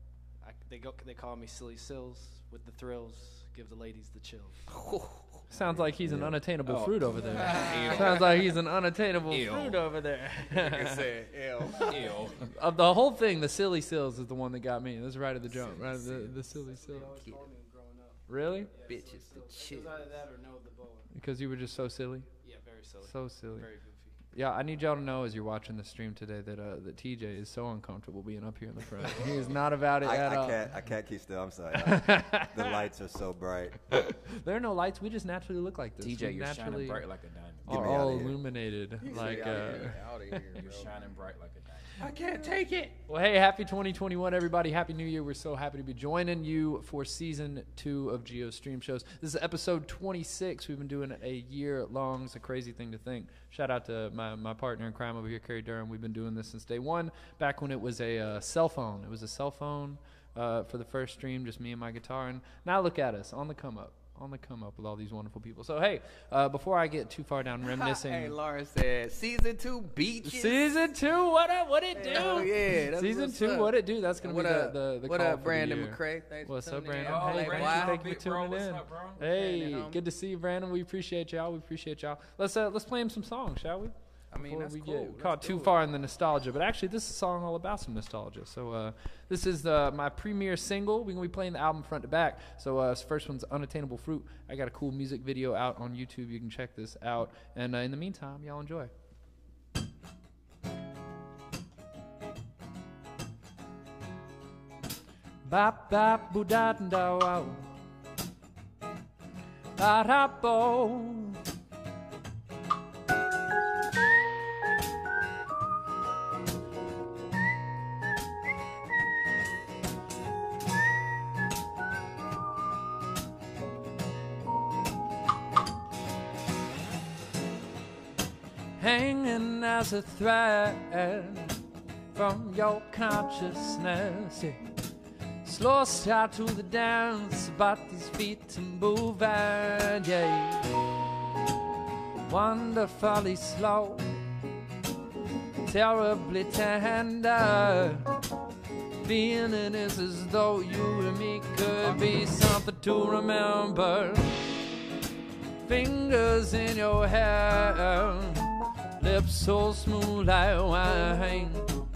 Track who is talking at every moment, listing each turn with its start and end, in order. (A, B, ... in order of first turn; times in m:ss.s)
0:00.4-0:04.6 A
0:04.7-0:05.4 B
0:05.5-0:11.1 C
0:06.0-0:06.4 D
0:06.6-0:08.4 E
0:07.3-0:08.3 B
0:07.4-0:07.8 A
0:09.3-0:09.9 E
0:10.5-0:12.4 B
0:11.7-0:12.5 E
0:12.4-0:17.2 C
0:15.6-0:16.3 E
0:16.5-0:21.1 A
0:17.1-0:17.5 B
0:18.3-0:18.7 C
0:18.8-0:20.2 B
0:21.1-0:22.3 C
0:22.4-0:24.2 A
0:23.0-0:23.7 C
0:24.3-0:30.6 C
0:30.0-0:34.0 D
0:31.7-0:32.8 C
0:34.1-0:37.0 C
0:36.0-0:37.9 E
0:37.6-0:38.4 D
0:37.6-0:40.4 C
0:39.0-0:40.9 B
0:39.1-0:39.8 E
0:40.5-0:42.0 E
0:42.0-0:42.9 B
0:43.1-1:08.4 C
1:07.7-1:10.6 B
1:10.2-1:38.9 C
1:11.9-1:18.1 B
1:17.0-1:19.2 E
1:19.2-1:20.0 B
1:24.3-1:25.8 B
1:45.4-1:47.7 C
1:49.8-1:51.4 C
2:08.8-2:14.6 C
2:15.4-2:20.7 C
2:22.2-2:24.2 C
2:25.6-2:28.0 C
2:29.0-2:34.4 C
2:35.6-2:41.7 C